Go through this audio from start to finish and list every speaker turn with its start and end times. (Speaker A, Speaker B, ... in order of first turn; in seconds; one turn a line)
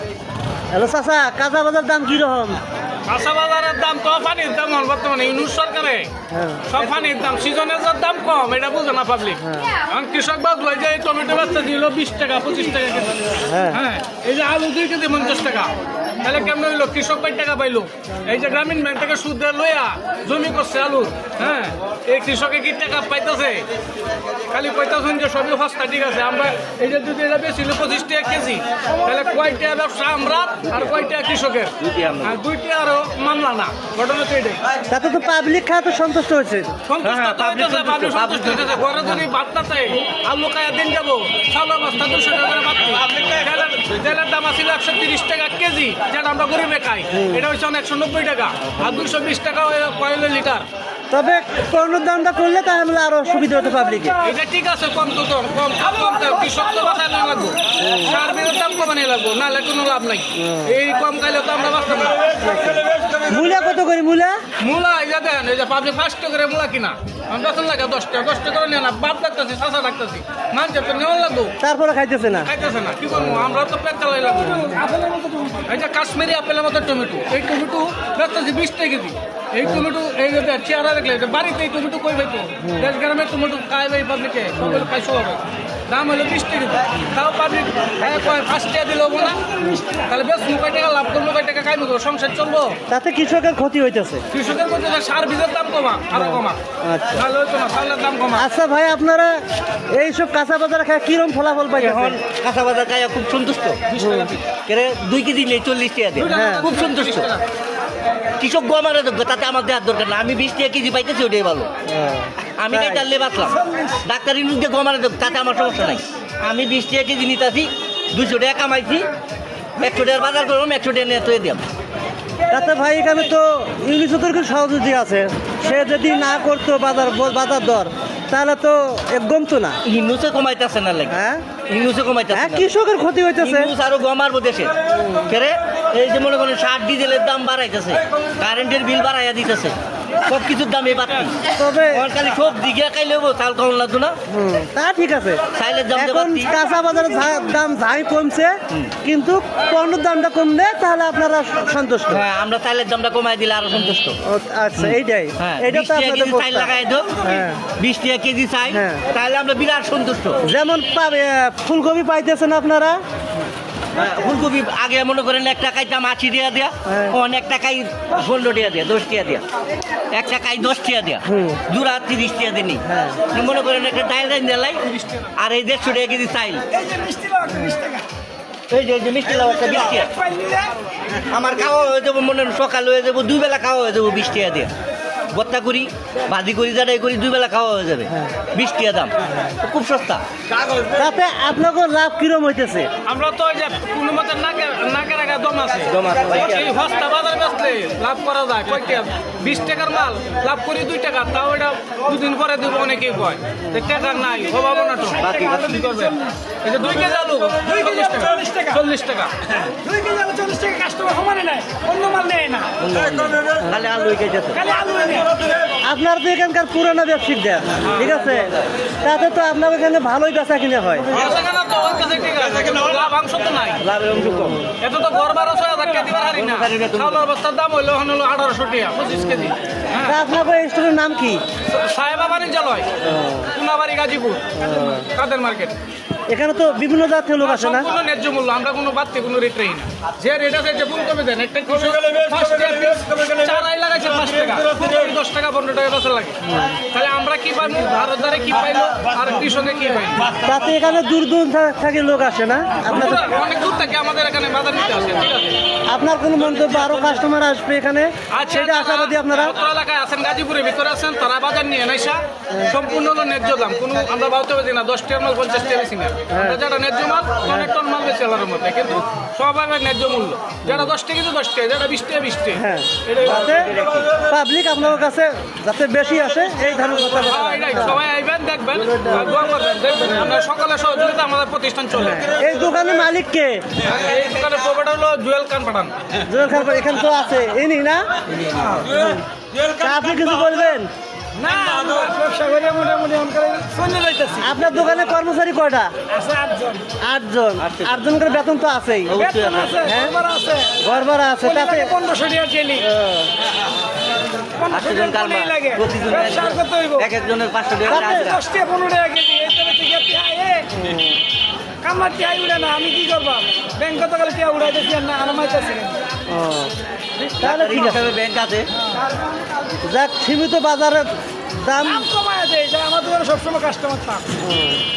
Speaker A: 0.7-2.6
Speaker B: 3.1-6.1
Speaker A: 6.3-6.7
Speaker B: 6.7-13.2
Speaker A: 9.4-9.7
Speaker A: 13.4-13.8
Speaker B: 13.7-15.7
Speaker B: 16.2-23.7
Speaker B: 24.5-34.6
Speaker C: 31.8-32.4
Speaker A: 34.9-38.1
Speaker B: 36.9-50.6
Speaker C: 38.0-38.8
Speaker A: 47.1-47.5
Speaker A: 51.1-54.2
Speaker B: 54.2-62.2
Speaker D: 55.8-58.5
Speaker A: 57.8-58.1
Speaker A: 60.4-60.8
Speaker A: 62.4-64.4
Speaker B: 64.6-71.5
Speaker A: 71.6-72.5
Speaker B: 72.4-74.7
Speaker D: 74.5-75.6
Speaker B: 75.6-89.4
Speaker A: 82.7-82.9
Speaker B: 90.1-92.8
Speaker A: 92.9-94.2
Speaker B: 94.3-96.6
Speaker A: 96.1-97.2
Speaker B: 97.1-98.5
Speaker A: 98.3-99.4
Speaker A: 99.9-102.2
Speaker C: 101.8-103.8
Speaker B: 103.9-104.4
Speaker A: 103.9-104.3
Speaker C: 104.6-107.3
Speaker B: 106.2-107.4
Speaker A: 106.2-106.7
Speaker C: 108.4-111.7
Speaker A: 111.8-113.1
Speaker C: 112.6-119.1
Speaker C: 119.8-121.6
Speaker A: 122.4-129.8
Speaker C: 129.8-131.1
Speaker A: 131.1-131.4
Speaker C: 131.7-132.7
Speaker A: 132.3-133.7
Speaker C: 133.4-134.7
Speaker A: 135.0-135.3
Speaker C: 135.2-139.7
Speaker C: 140.2-141.3
Speaker A: 141.5-142.1
Speaker C: 141.9-144.2
Speaker A: 144.3-145.4
Speaker C: 145.5-146.6
Speaker A: 145.9-152.2
Speaker C: 152.1-154.2
Speaker A: 154.2-157.6
Speaker C: 154.8-157.2
Speaker C: 157.8-160.4
Speaker A: 158.7-159.0
Speaker A: 160.4-163.0
Speaker C: 163.9-169.4
Speaker A: 166.9-167.2
Speaker C: 170.1-176.7
Speaker A: 171.3-171.6
Speaker A: 172.9-173.2
Speaker D: 176.7-178.0
Speaker C: 178.7-180.1
Speaker D: 180.1-180.8
Speaker C: 181.3-184.7
Speaker C: 185.3-190.2
Speaker A: 190.9-192.9
Speaker B: 193.1-209.3
Speaker C: 195.9-196.7
Speaker D: 203.9-206.3
Speaker C: 205.2-205.8
Speaker D: 207.6-208.8
Speaker D: 209.8-212.7
Speaker C: 212.8-214.6
Speaker D: 214.5-215.3
Speaker A: 215.8-218.5
Speaker B: 217.8-218.2
Speaker A: 219.0-221.1
Speaker B: 221.1-223.8
Speaker C: 223.8-224.6
Speaker A: 224.3-224.7
Speaker B: 224.8-230.2
Speaker C: 226.3-227.3
Speaker A: 230.0-231.4
Speaker B: 231.7-232.9
Speaker A: 233.1-233.5
Speaker B: 233.5-235.8
Speaker A: 234.6-235.1
Speaker A: 236.3-237.9
Speaker B: 237.4-246.4
Speaker A: 246.4-246.7
Speaker B: 246.9-250.3
Speaker A: 250.4-253.3
Speaker B: 252.8-255.6
Speaker A: 255.9-259.5
Speaker B: 258.3-273.9
Speaker A: 266.3-266.6
Speaker A: 267.4-267.7
Speaker A: 270.6-270.9
Speaker A: 272.5-278.0
Speaker B: 277.2-282.3
Speaker A: 278.8-279.4
Speaker A: 282.0-283.6
Speaker B: 283.8-285.9
Speaker A: 286.2-288.1
Speaker A: 288.8-290.9
Speaker D: 291.4-294.5
Speaker A: 294.4-295.9
Speaker D: 296.1-296.8
Speaker A: 297.0-299.2
Speaker C: 297.6-298.1
Speaker C: 299.1-299.8
Speaker D: 299.2-300.7
Speaker A: 299.8-300.1
Speaker A: 300.8-301.9
Speaker D: 301.4-302.9
Speaker A: 302.8-303.3
Speaker D: 304.6-307.1
Speaker C: 304.7-308.4
Speaker A: 307.9-308.4
Speaker D: 307.9-310.7
Speaker A: 310.7-311.1
Speaker D: 311.8-316.0
Speaker A: 316.3-316.7
Speaker C: 317.2-318.7
Speaker A: 317.4-318.1
Speaker A: 319.8-322.1
Speaker D: 321.8-324.2
Speaker A: 324.4-324.8